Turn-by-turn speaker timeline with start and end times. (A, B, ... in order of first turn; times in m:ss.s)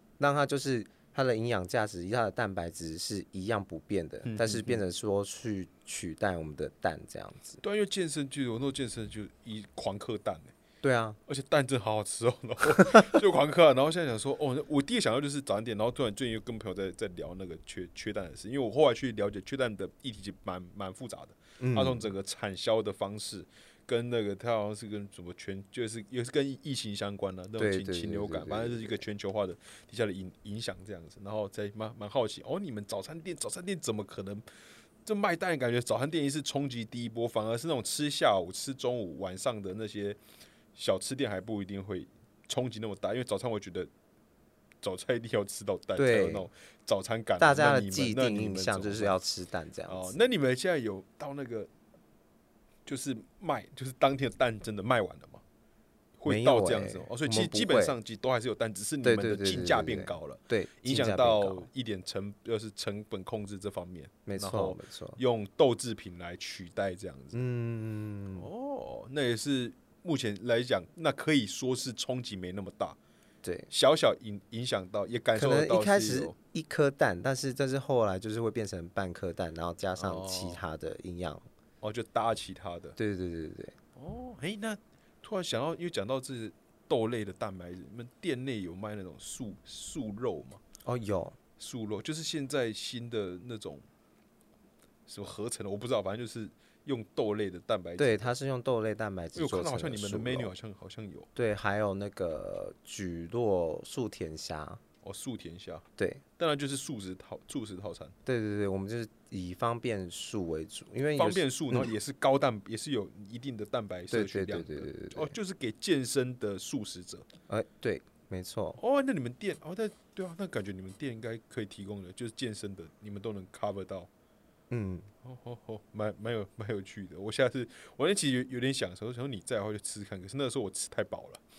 0:00.2-0:07.6 A
0:04.2-0:04.8 B
0:07.6-0:10.5 B
0:10.8-0:11.2 A
0:11.3-0:34.4 B
0:12.8-0:13.1 A
0:21.6-0:22.1 A
0:27.6-0:29.0 A
0:35.0-0:40.2 B
0:40.7-0:43.9 B
0:44.8-0:49.1 B
0:46.0-0:46.5 A
0:47.4-0:50.2 A
0:49.9-0:51.7 B
0:52.8-0:55.4 B
0:56.2-1:07.4 B
0:56.3-0:57.9 A
0:59.0-1:01.7 A
1:04.2-1:05.2 A
1:07.3-1:08.5 A
1:08.3-1:13.0 B
1:13.4-1:13.7 A
1:13.7-1:16.3 B
1:15.3-1:21.4 A
1:20.0-1:20.6 B
1:21.8-1:23.0 B
1:23.0-1:23.8 A
1:23.9-1:30.6 B
1:30.8-1:31.4 A
1:31.6-1:33.8 B
1:35.1-1:38.3 B
1:38.0-1:40.5 A
1:39.3-1:41.3 B
1:41.3-1:44.8 A
1:45.0-1:45.8 B
1:46.0-1:46.2 A
1:46.4-1:48.1 B
1:48.2-1:51.9 A
1:51.2-1:57.3 B
1:54.1-1:55.3 A
1:57.5-1:58.8 A
1:58.8-2:04.1 B
2:04.7-2:05.1 A
2:05.2-2:11.4 B